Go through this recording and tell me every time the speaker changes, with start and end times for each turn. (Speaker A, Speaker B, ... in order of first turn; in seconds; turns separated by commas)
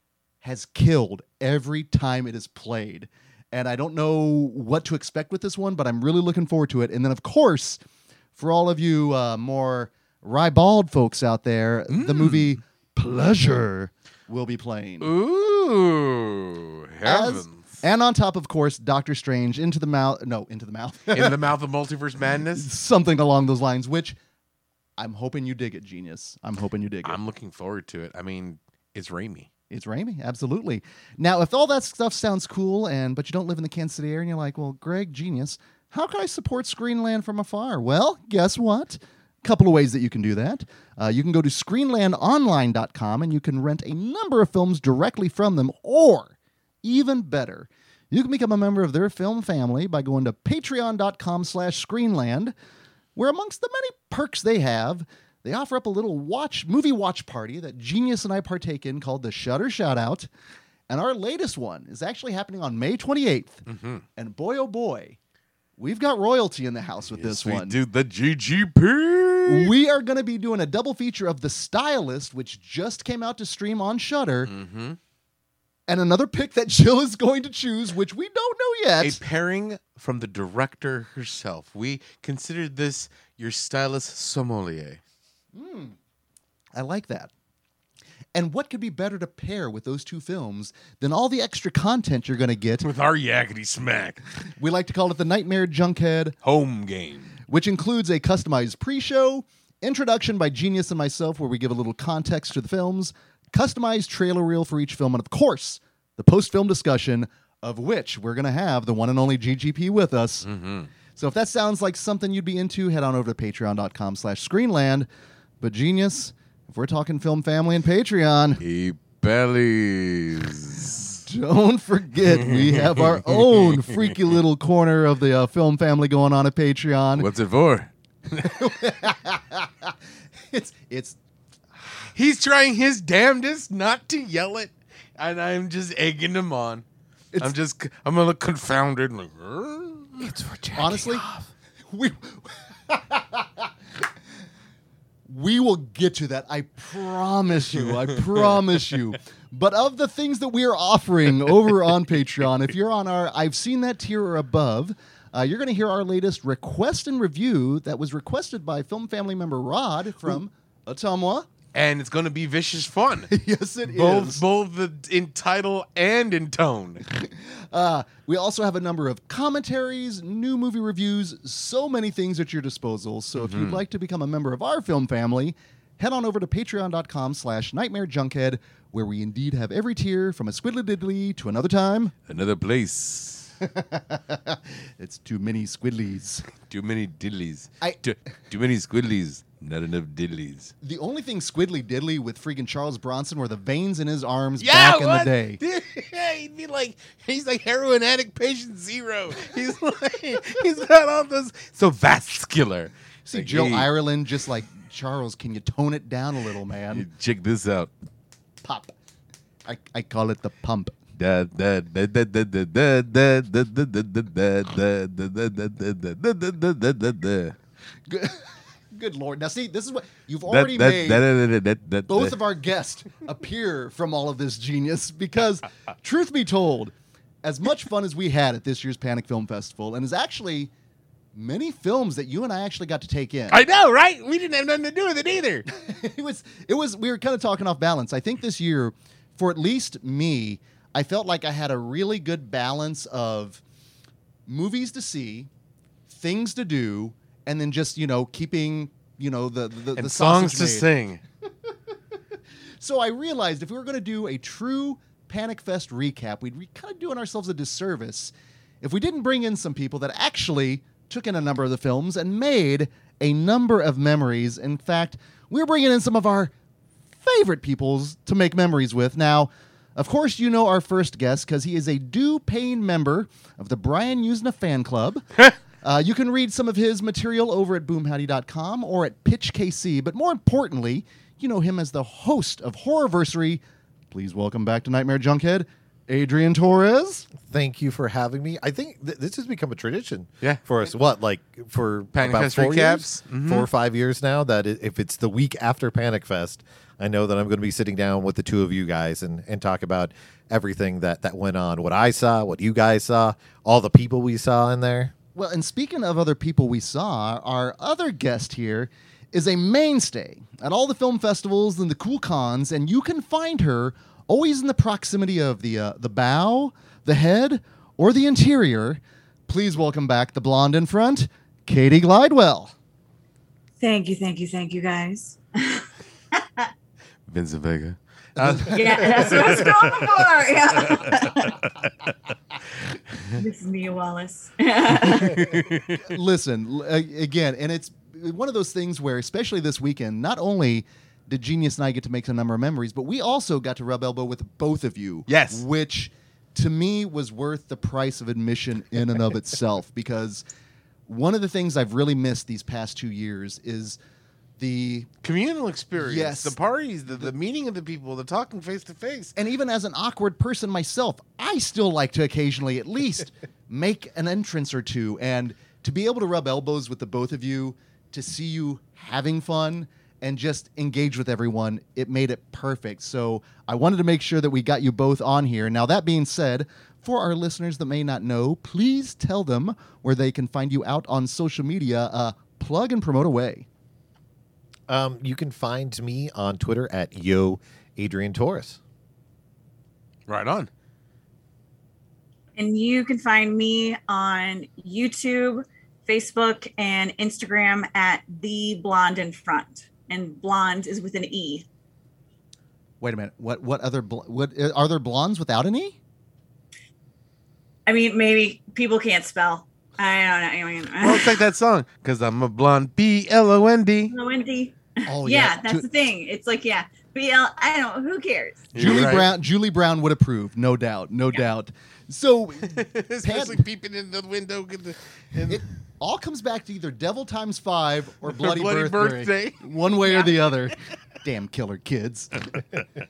Speaker A: 0.4-7.8, Speaker A: 8.4-15.1, Speaker B: 11.9-12.6, Speaker B: 15.0-17.8, Speaker A: 17.1-21.4, Speaker B: 21.1-22.7, Speaker A: 22.6-24.2, Speaker A: 25.0-27.2, Speaker B: 27.0-29.5, Speaker A: 29.7-52.5, Speaker A: 53.1-60.3, Speaker A: 60.9-63.6, Speaker B: 63.7-64.0, Speaker A: 64.2-65.2, Speaker A: 65.8-67.8, Speaker B: 67.2-69.7, Speaker A: 69.5-74.5, Speaker B: 74.5-75.0, Speaker A: 75.9-79.2, Speaker B: 79.0-85.0, Speaker A: 85.5-86.0, Speaker A: 86.7-87.3, Speaker A: 88.3-92.9, Speaker B: 92.8-94.2, Speaker A: 94.6-96.3, Speaker B: 96.4-97.4, Speaker A: 97.5-110.5, Speaker B: 110.4-110.9, Speaker A: 111.2-115.1, Speaker A: 115.6-118.6, Speaker B: 118.6-121.1, Speaker A: 121.3-127.3, Speaker B: 122.4-124.4, Speaker B: 127.2-128.6, Speaker A: 128.4-129.9, Speaker A: 130.5-131.2, Speaker B: 132.1-136.8, Speaker B: 137.4-140.3, Speaker C: 140.2-141.3, Speaker A: 140.8-141.2, Speaker A: 141.9-143.7, Speaker A: 145.3-161.5, Speaker B: 161.7-163.3, Speaker A: 163.3-164.4, Speaker B: 163.9-167.0, Speaker A: 167.1-182.1, Speaker B: 173.3-173.8, Speaker B: 182.3-183.6, Speaker A: 183.6-186.5, Speaker B: 186.5-190.7, Speaker A: 190.8-195.6, Speaker B: 194.6-203.9, Speaker A: 203.3-207.1, Speaker B: 206.9-207.9, Speaker A: 208.6-208.9, Speaker A: 209.7-211.0, Speaker B: 211.2-217.6, Speaker A: 218.1-221.2, Speaker B: 220.5-222.4, Speaker A: 222.1-230.7, Speaker A: 231.3-233.6, Speaker B: 233.5-235.7, Speaker A: 235.7-243.6, Speaker A: 244.5-245.5, Speaker A: 246.1-250.9, Speaker B: 249.9-251.2, Speaker A: 252.8-266.5, Speaker A: 267.2-287.3, Speaker C: 287.4-305.1, Speaker B: 292.1-293.7, Speaker A: 305.4-322.7, Speaker D: 323.8-326.7, Speaker B: 327.3-329.7, Speaker A: 328.4-329.6, Speaker D: 328.7-331.6, Speaker D: 333.4-335.4, Speaker B: 335.0-336.1, Speaker A: 336.0-350.4, Speaker B: 345.3-345.6, Speaker A: 351.1-354.0, Speaker A: 354.6-355.1, Speaker B: 355.2-359.3, Speaker A: 356.0-356.6, Speaker A: 359.4-383.7, Speaker C: 384.9-388.8, Speaker B: 390.3-390.7, Speaker D: 392.6-401.7, Speaker A: 403.0-406.0, Speaker D: 407.9-411.4, Speaker B: 411.0-414.1, Speaker D: 414.1-418.7, Speaker A: 415.1-415.8, Speaker B: 418.7-419.3, Speaker A: 418.8-423.6, Speaker B: 422.8-425.6, Speaker A: 425.5-432.4, Speaker B: 428.2-429.7